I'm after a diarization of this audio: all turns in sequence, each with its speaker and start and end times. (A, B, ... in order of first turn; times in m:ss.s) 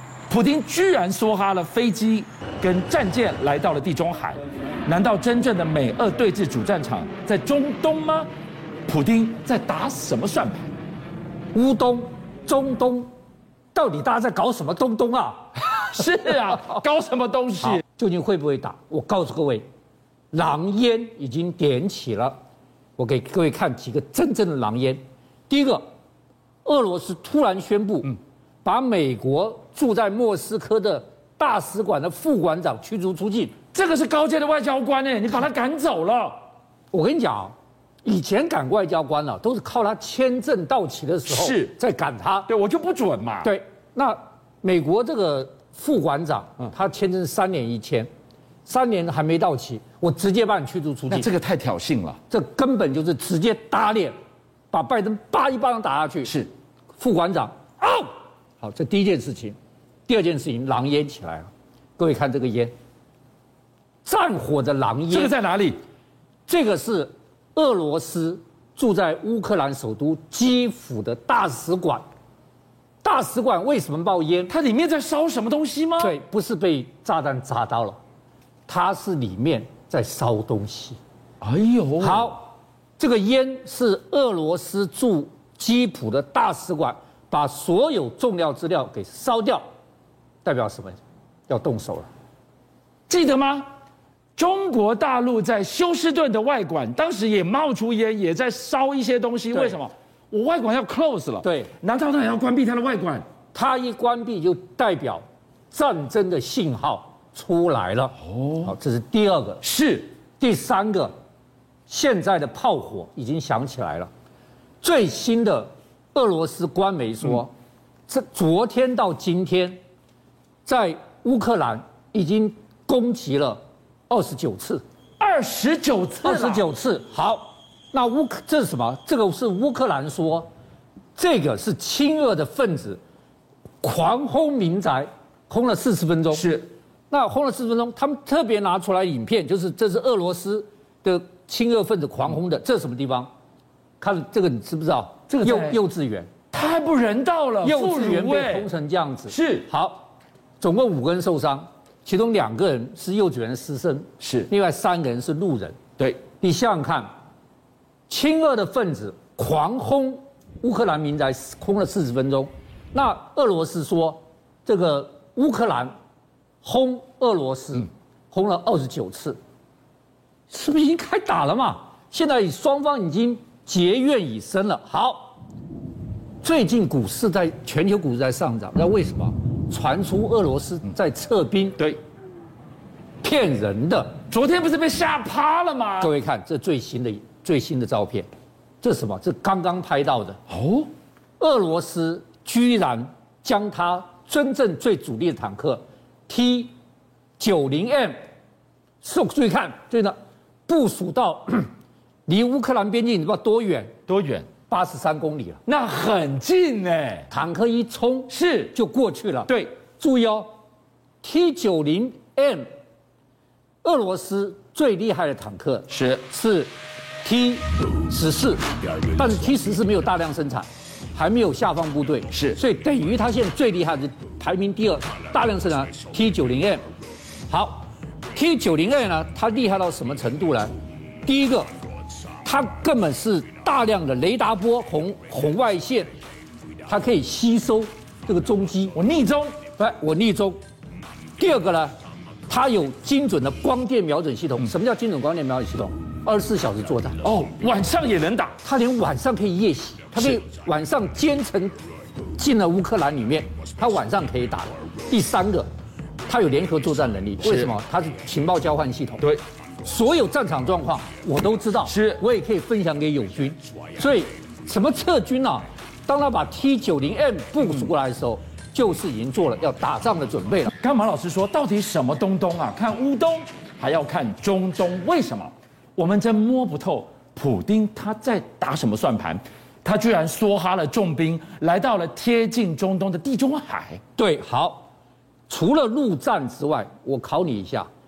0:00.3-0:08.3 A
0:08.9-0:10.7 A
0:11.5-0:13.1 B
0:13.7-0:15.7 B
0:15.8-0:17.8 A
0:16.2-0:16.8 B
0:17.6-0:19.7 B
0:20.3-0:22.4 B
0:23.0-0:25.9 B
0:26.6-0:33.6 B
0:33.7-0:36.4 A
0:36.9-0:42.5 B
0:41.3-0:41.8 A
0:42.5-0:43.5 A
0:43.4-0:48.1 B
0:48.7-0:51.3 B
0:51.1-0:52.2 A
0:52.3-0:54.2 B
0:54.7-0:56.4 B
0:56.2-0:56.5 A
0:57.0-0:59.6 B
1:00.1-1:02.7 B
1:04.0-1:05.4 B
1:05.1-1:05.8 A
1:06.5-1:12.0 B
1:13.0-1:14.5 B
1:14.5-1:16.2 A
1:16.0-1:18.0 B
1:18.7-1:21.0 B
1:21.4-1:22.3 A
1:22.0-1:29.6 B
1:30.4-1:32.1 B
1:33.1-1:33.7 A
1:34.4-1:43.3 A
1:41.4-1:41.7 B
1:43.5-1:49.6 B
1:49.6-1:50.1 A
1:50.4-1:51.1 B
1:51.9-1:54.1 B
1:54.8-1:57.5 B
1:58.1-1:59.8 B
2:00.7-2:04.8 B
2:05.2-2:06.7 A
2:06.2-2:10.5 B
2:11.2-2:13.0 B
2:13.8-2:23.3 B
2:16.3-2:16.7 A
2:24.0-2:26.3 B
2:25.3-2:25.8 A
2:26.5-2:28.7 A
2:27.6-2:35.8 B
2:29.3-2:29.7 A
2:34.2-2:34.5 A
2:36.0-2:36.2 A
2:36.3-2:37.1 B
2:38.1-2:46.0 B
2:46.6-2:49.4 B
2:50.5-2:55.4 B
2:56.4-3:01.8 B
3:03.2-3:04.2 B
3:04.3-3:06.1 A
3:06.0-3:08.3 B
3:08.8-3:10.4 B
3:10.5-3:10.9 A
3:11.4-3:16.7 B
3:17.4-3:18.2 B
3:19.0-3:20.2 B
3:20.7-3:21.7 B
3:22.3-3:23.9 B
3:24.1-3:24.5 A
3:24.7-3:25.6 B
3:25.7-3:27.3 A
3:27.3-3:30.5 B
3:28.3-3:28.8 A
3:29.5-3:29.7 A
3:31.2-3:32.7 B
3:33.8-3:36.7 B
3:35.9-3:36.2 A
3:37.2-3:46.8 B
3:42.3-3:42.6 A
3:47.5-3:50.7 B
3:51.2-3:51.7 B
3:52.4-3:56.1 B
3:56.9-3:58.9 B
3:59.0-3:59.6 A
3:59.8-4:00.6 B
4:01.4-4:01.9 B
4:02.5-4:07.2 B
4:07.2-4:08.6 A
4:08.6-4:11.8 B
4:12.3-4:15.7 B
4:16.3-4:19.2 B
4:17.4-4:17.7 A
4:19.8-4:30.7 B
4:21.9-4:22.2 A
4:30.8-4:44.0 A
4:44.2-4:44.9 B
4:45.5-4:47.9 B